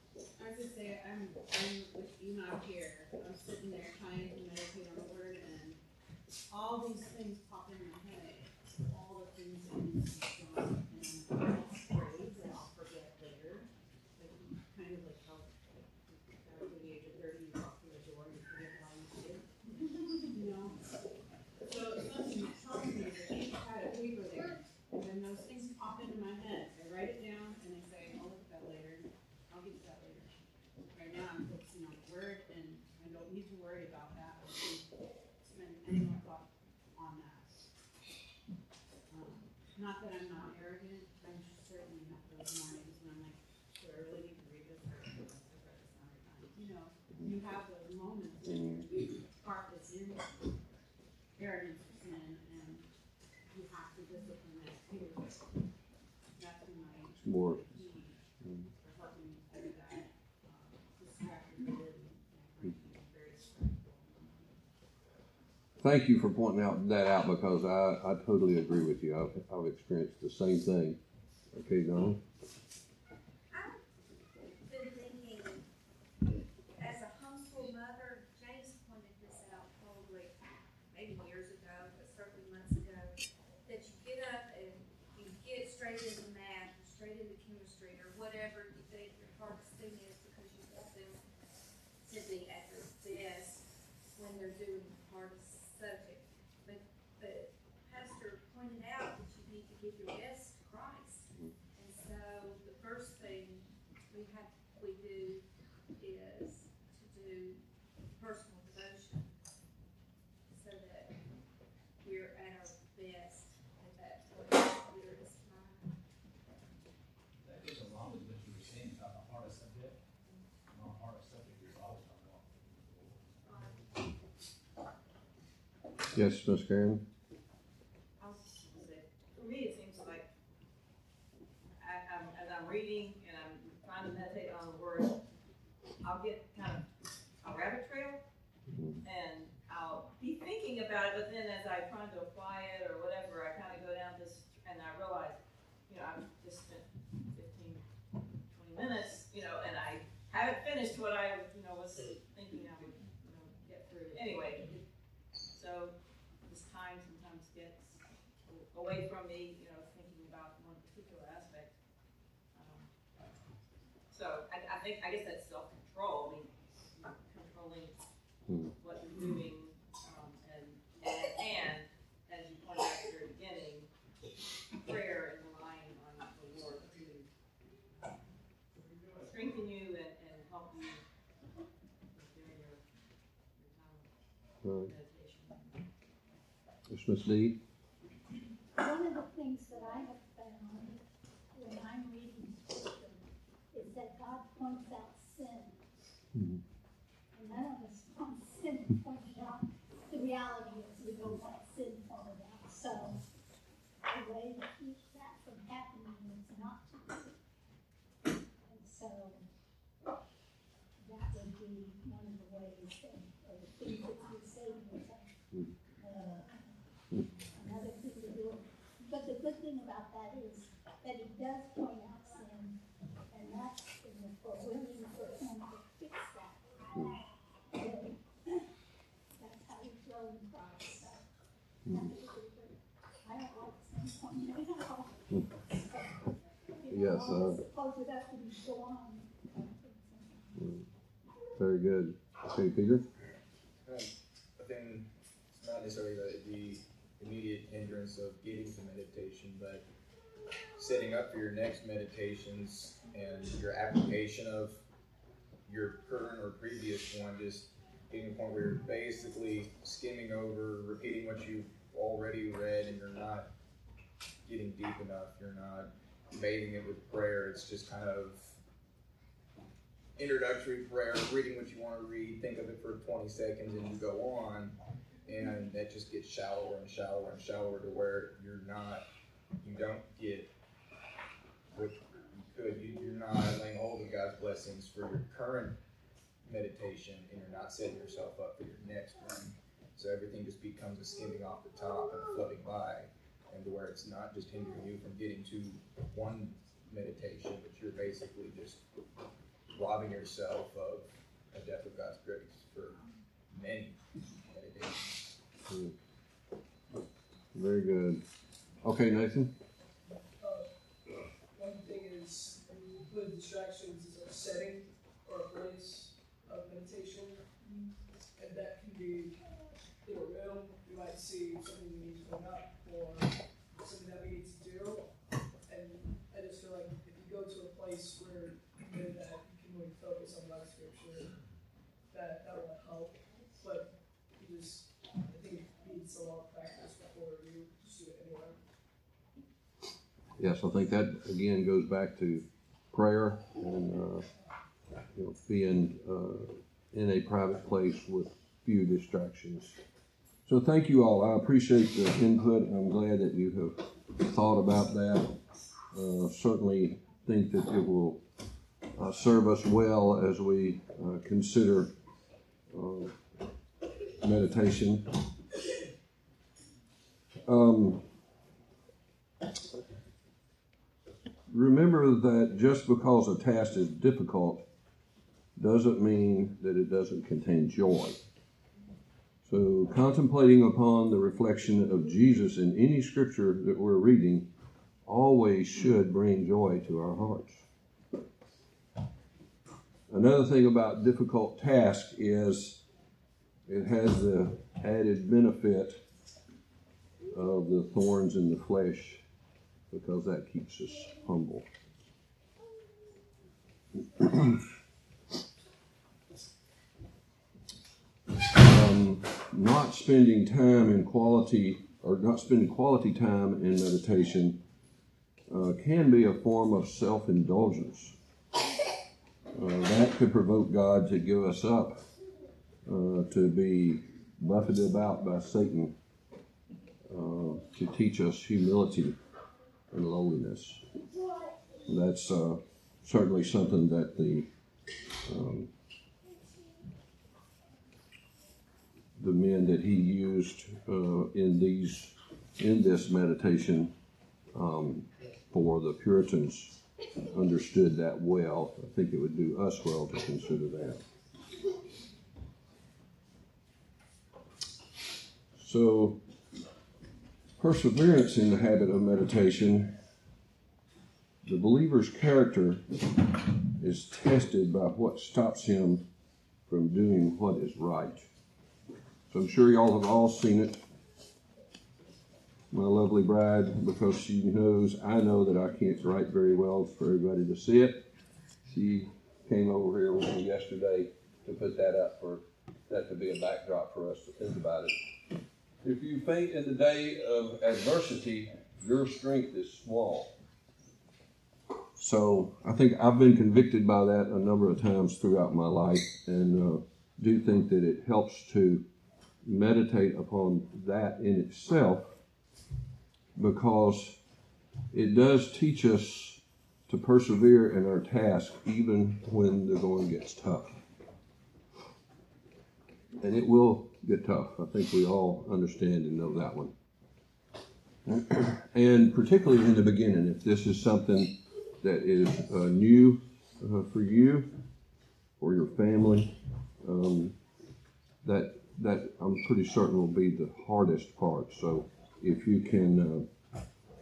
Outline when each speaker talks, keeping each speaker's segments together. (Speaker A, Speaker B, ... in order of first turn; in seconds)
Speaker A: 0.4-5.8, 6.5-19.5, 20.2-20.8, 21.6-30.3, 30.9-34.9, 35.5-37.5, 39.1-50.5, 51.4-52.9, 53.5-55.5, 56.4-64.6
Speaker B: 57.2-57.6, 65.8-71.0, 71.5-72.2, 126.1-127.0, 138.7-139.0, 168.5-168.7, 184.6-184.9, 186.9-187.6, 236.9-237.6, 241.6-243.1, 305.7-305.9, 307.5-308.2, 308.8-309.5, 340.4-344.3, 345.1-349.8, 350.5-355.4, 355.9-358.2, 358.9-361.9, 362.7-363.2, 364.2-365.1, 367.5-368.1, 371.5-374.6, 375.6-378.2, 379.4-384.5, 385.1-387.6, 390.1-392.8, 393.7-396.0, 397.3-399.2, 399.9-401.7, 404.2-404.5, 408.6-414.6, 415.5-418.2, 419.5-422.0, 422.9-425.9, 427.1-429.2, 429.9-430.8, 431.9-434.5, 435.2-435.7, 439.2-443.9, 444.5-446.8, 447.3-451.0, 455.6-456.2, 457.6-459.9, 461.4-463.2, 463.8-466.1, 466.7-468.3, 469.3-470.8, 472.7-478.1, 478.6-485.0, 485.8-490.3, 492.0-498.9, 499.4-502.1, 503.4-504.2, 504.9-510.8, 513.2-516.8, 518.1-524.5, 525.4-527.4, 528.2-533.3
Speaker C: 73.5-73.8, 74.6-75.7, 76.8-83.1, 83.7-91.2, 92.0-105.4, 106.0-107.6, 108.1-109.3, 110.5-111.2, 112.0-115.9, 123.5-123.8
Speaker D: 117.4-120.0, 120.7-123.3
Speaker E: 128.2-130.3, 131.8-135.2, 136.0-136.9, 137.4-138.2, 139.0-147.8, 148.5-154.8, 155.5-155.9, 156.5-161.8, 162.5-162.9, 164.1-168.0, 168.8-173.9, 174.8-177.3, 179.2-181.0, 182.1-182.8, 183.6-184.1, 184.8-185.8
Speaker F: 188.8-191.0, 191.5-195.8, 197.3-203.2, 204.1-207.4, 208.7-209.4, 211.1-215.3, 216.0-216.8, 217.5-222.8, 223.3-227.2, 227.7-228.7, 229.3-231.2, 231.9-240.8
Speaker G: 243.8-249.8, 250.8-254.8, 255.7-263.5, 264.4-268.6, 270.2-279.1, 279.6-280.5, 281.7-285.8, 286.4-298.8, 299.7-305.3
Speaker H: 310.4-310.7, 311.5-319.4, 320.0-325.1, 325.7-331.3, 332.1-338.6